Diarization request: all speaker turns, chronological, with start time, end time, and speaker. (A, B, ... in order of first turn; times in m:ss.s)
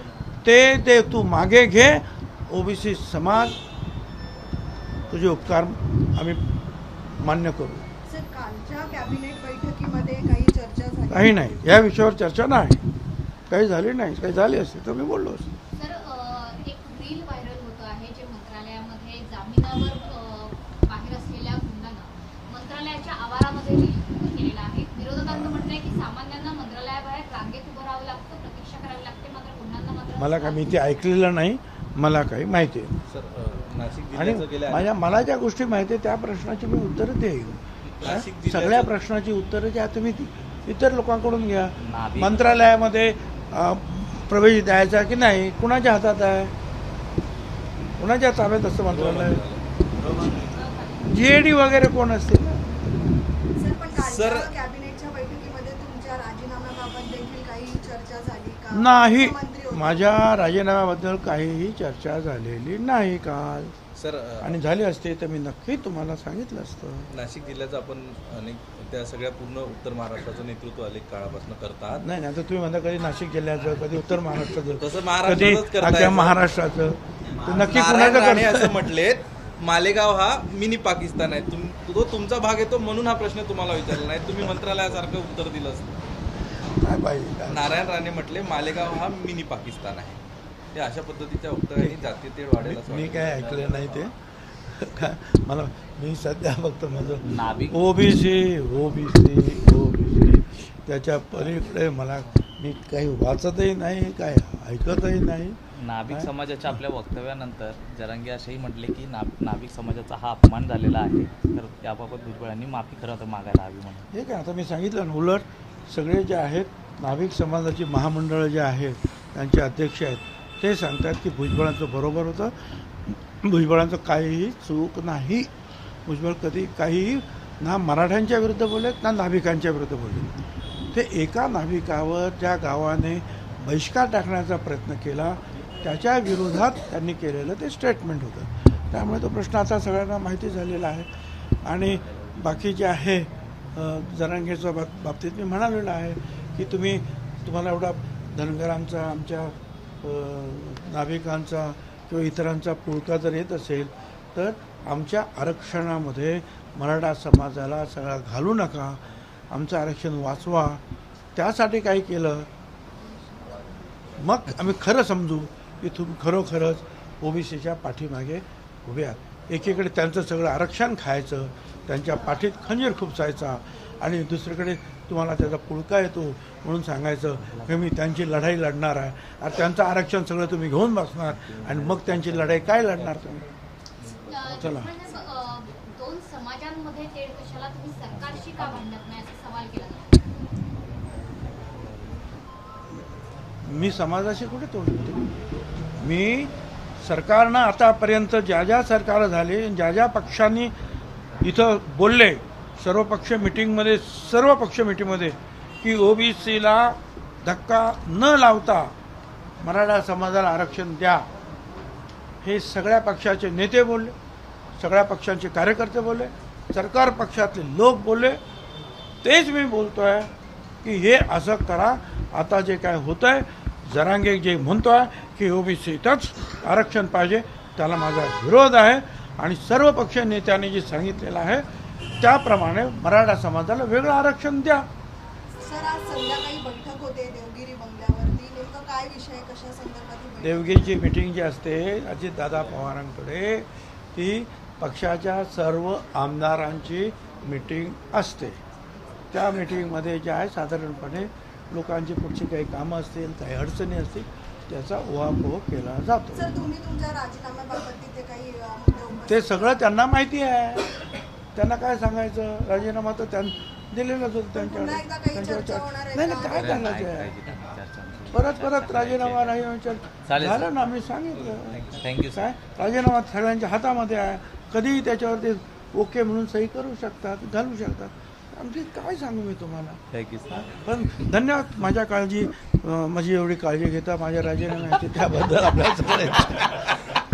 0:00.4-0:03.6 A
0:05.1-0:06.4 A
0:07.2-0:07.8 A
0:08.1-0:11.6 B
0:11.1-0:12.8 A
0:13.5-0:15.5 A
0:15.7-0:30.7 C
0:30.2-0:32.9 A
0:33.0-0:34.9 D
0:34.1-0:46.5 A
0:37.8-0:38.9 D
0:41.8-0:42.6 E
0:48.0-0:49.4 A
0:48.9-0:49.6 D
0:50.2-0:51.1 C
0:51.0-0:52.6 A
0:53.6-1:00.3 B
0:54.0-0:54.5 D
0:58.7-1:03.7 A
1:04.0-1:04.6 D
1:04.4-1:07.1 A
1:07.1-1:12.0 D
1:12.0-1:18.8 A
1:14.8-1:16.4 D
1:17.4-1:26.0 D
1:26.8-1:27.8 A
1:27.5-1:30.2 D
1:30.7-1:34.1 D
1:31.8-1:32.0 A
1:32.6-1:34.1 A
1:34.7-1:45.6 A
1:37.2-1:37.8 E
1:45.8-1:54.1 E
1:46.1-1:46.8 A
1:54.1-2:02.5 A
2:03.1-2:05.5 A
2:06.0-2:10.4 A
2:10.9-2:21.1 A
2:21.6-2:40.8 A
2:41.3-2:42.5 A
2:44.2-3:03.5 A
2:57.4-2:57.8 E
3:01.5-3:02.6 E
3:04.2-3:10.1 C
3:04.5-3:04.9 A
3:13.6-3:15.3 A
3:16.0-3:20.7 A
3:21.4-3:28.9 A
3:29.6-3:31.3 A
3:32.4-3:34.1 A
3:34.8-3:38.4 A
3:39.2-3:40.3 A
3:40.8-3:51.6 A
3:52.2-3:54.9 A
3:55.6-4:00.9 B
4:00.4-4:08.6 A
4:09.3-4:16.5 A
4:16.3-4:19.7 B
4:19.2-4:20.9 A
4:21.5-4:27.3 A
4:24.6-4:26.8 B
4:26.5-4:29.6 E
4:28.3-4:47.0 A
4:30.2-4:30.7 E
4:31.7-4:32.5 E
4:40.1-4:40.7 E